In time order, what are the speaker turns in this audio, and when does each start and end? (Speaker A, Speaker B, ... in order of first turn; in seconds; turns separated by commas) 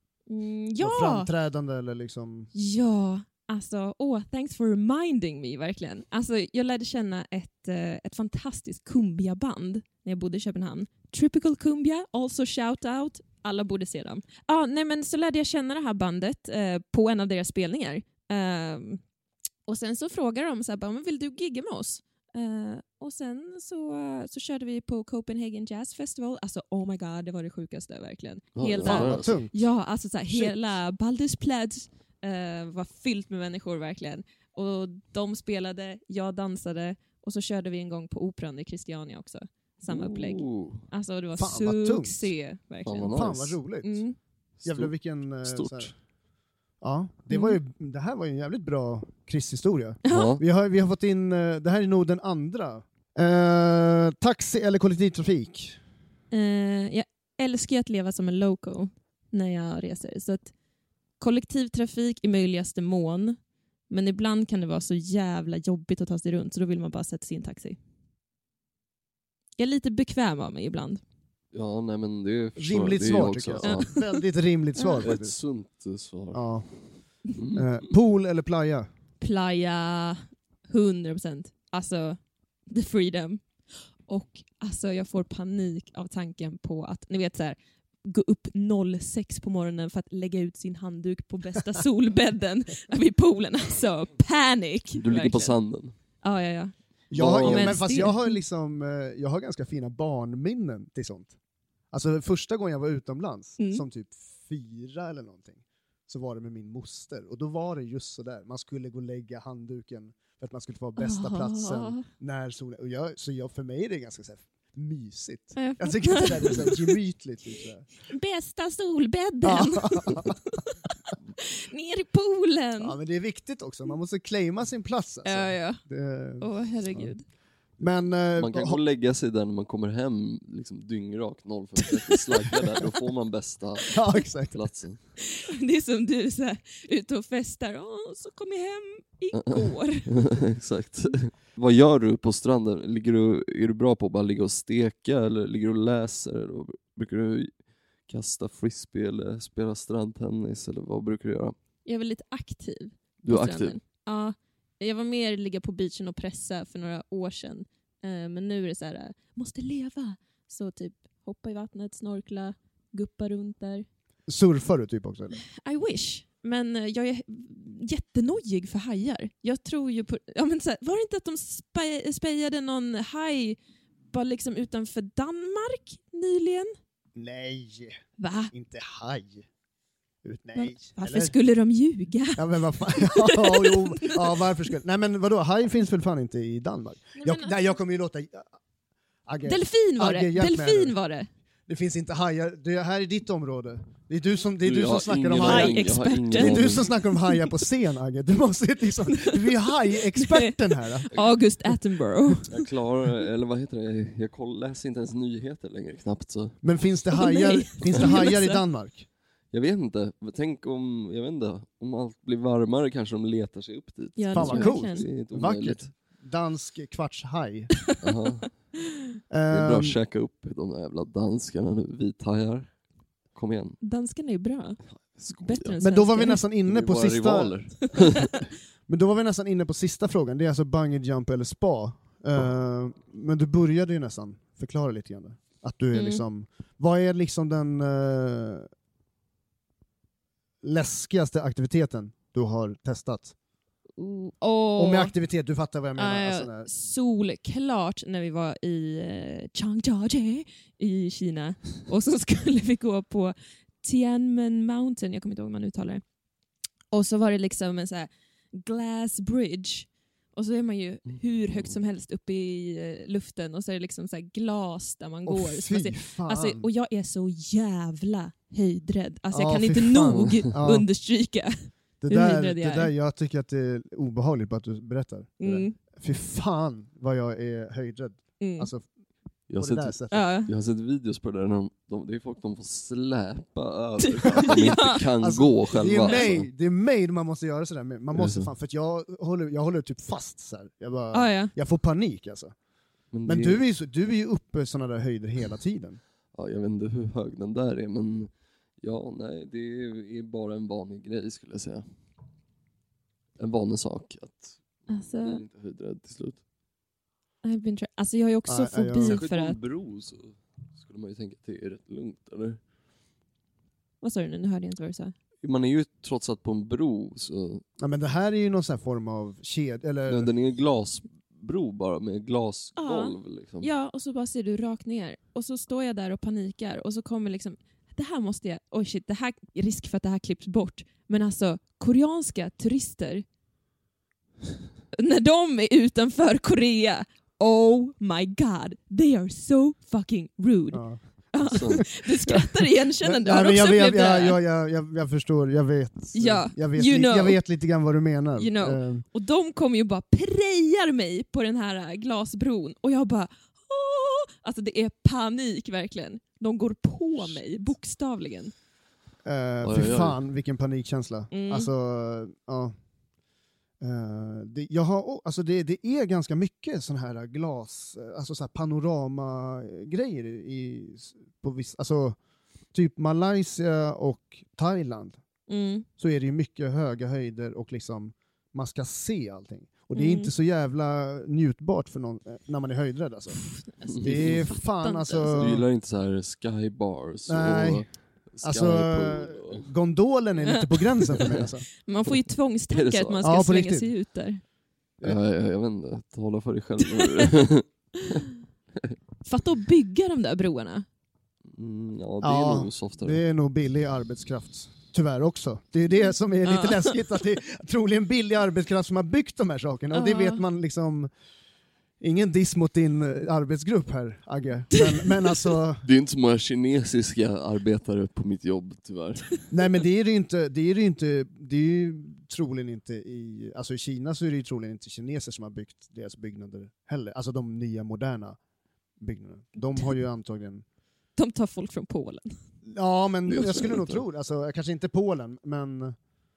Speaker A: 0.3-1.3, Speaker B: 0.8-2.5, Speaker A: 2.5-19.0, Speaker A: 19.7-43.2, Speaker C: 28.6-29.4, Speaker B: 28.8-29.5, Speaker C: 39.9-40.8, Speaker B: 41.4-42.3, Speaker C: 42.9-43.6, Speaker B: 43.1-44.0, Speaker A: 43.8-44.2, Speaker C: 44.6-45.9, Speaker B: 44.6-45.9, Speaker B: 46.8-55.8, Speaker A: 47.3-47.6, Speaker A: 50.0-50.4, Speaker C: 50.1-50.4, Speaker A: 56.3-60.5, Speaker A: 61.2-63.4, Speaker A: 63.9-67.8, Speaker A: 69.6-71.0, Speaker C: 71.5-73.9, Speaker B: 72.6-75.3, Speaker A: 73.6-74.2, Speaker C: 75.0-76.5, Speaker B: 76.3-76.7, Speaker C: 77.3-77.7, Speaker B: 77.5-78.9, Speaker A: 79.2-83.4, Speaker A: 84.1-95.6, Speaker C: 95.0-96.0, Speaker A: 96.2-96.7, Speaker B: 97.1-101.3, Speaker C: 97.1-97.8, Speaker A: 97.3-98.4, Speaker B: 101.9-117.9, Speaker A: 103.6-103.8, Speaker A: 111.0-112.0, Speaker A: 115.6-117.0, Speaker A: 118.1-120.8, Speaker B: 119.4-120.4, Speaker A: 121.4-123.0, Speaker B: 122.8-127.1, Speaker A: 125.2-125.8, Speaker A: 126.4-127.2, Speaker B: 127.8-128.8, Speaker C: 128.4-135.0, Speaker B: 133.9-134.6, Speaker A: 135.3-140.1, Speaker C: 139.3-147.5, Speaker C: 148.1-151.6, Speaker A: 151.9-163.9, Speaker C: 153.2-153.8, Speaker B: 164.3-165.4, Speaker A: 165.4-173.6, Speaker A: 174.1-176.7, Speaker B: 177.2-178.0, Speaker A: 178.2-178.5, Speaker B: 178.5-179.5, Speaker B: 180.2-181.3, Speaker A: 180.6-184.4, Speaker B: 182.4-188.5, Speaker A: 187.2-187.6, Speaker B: 189.3-190.9, Speaker A: 189.4-191.3, Speaker B: 191.7-201.1, Speaker C: 194.6-196.9, Speaker A: 195.3-197.5, Speaker A: 199.1-199.6, Speaker A: 200.1-202.5, Speaker C: 202.5-206.6, Speaker B: 206.6-209.1, Speaker A: 207.1-208.6, Speaker C: 209.5-215.9, Speaker A: 214.2-215.1, Speaker B: 214.3-217.8, Speaker C: 218.0-218.5, Speaker B: 219.3-220.0, Speaker C: 219.5-222.8, Speaker C: 223.3-223.8, Speaker A: 223.8-226.4, Speaker C: 225.0-225.8, Speaker B: 225.8-228.0, Speaker C: 226.7-228.3, Speaker B: 228.9-238.7, Speaker A: 235.9-236.2, Speaker B: 240.6-243.3, Speaker A: 244.0-245.1, Speaker B: 244.8-246.7, Speaker A: 246.0-256.0, Speaker A: 256.9-271.5, Speaker B: 265.3-266.7, Speaker B: 269.3-270.9, Speaker B: 272.0-278.9, Speaker A: 272.1-272.9, Speaker A: 275.4-275.8, Speaker A: 278.4-278.7, Speaker C: 279.5-286.5, Speaker B: 279.6-280.2, Speaker A: 280.1-280.5, Speaker A: 284.0-285.0, Speaker B: 284.4-292.5, Speaker C: 288.1-288.5, Speaker A: 291.1-291.5, Speaker C: 293.1-293.6, Speaker B: 293.2-296.0, Speaker C: 296.3-301.9, Speaker C: 303.4-306.4, Speaker A: 304.9-305.4, Speaker A: 307.4-309.6, Speaker B: 308.5-309.2, Speaker C: 309.0-312.6, Speaker A: 314.0-315.1, Speaker C: 315.4-317.6, Speaker B: 317.8-320.3, Speaker C: 320.1-323.7, Speaker A: 322.8-333.2, Speaker A: 334.9-344.4, Speaker B: 340.7-349.0, Speaker C: 341.4-341.8, Speaker A: 346.1-347.4, Speaker A: 348.4-358.5, Speaker B: 359.2-362.7, Speaker C: 359.6-360.2, Speaker A: 361.3-361.7, Speaker B: 363.8-372.2, Speaker B: 372.7-375.2, Speaker A: 375.5-375.9, Speaker B: 376.0-383.4, Speaker A: 379.9-380.3, Speaker A: 383.4-385.5, Speaker C: 383.9-384.4, Speaker B: 384.0-385.6, Speaker C: 385.4-389.7, Speaker B: 387.3-387.9, Speaker B: 388.4-391.7, Speaker A: 390.4-394.4, Speaker C: 392.7-393.2, Speaker B: 393.2-393.9, Speaker C: 395.0-398.2, Speaker A: 396.9-397.3, Speaker A: 399.2-400.9, Speaker C: 401.5-403.2, Speaker B: 402.2-411.1, Speaker A: 406.5-406.9, Speaker A: 409.9-410.4, Speaker B: 412.0-415.8, Speaker C: 415.8-419.3, Speaker B: 419.5-428.4, Speaker B: 429.0-430.6, Speaker A: 431.2-432.4, Speaker B: 432.7-436.0, Speaker C: 433.3-434.0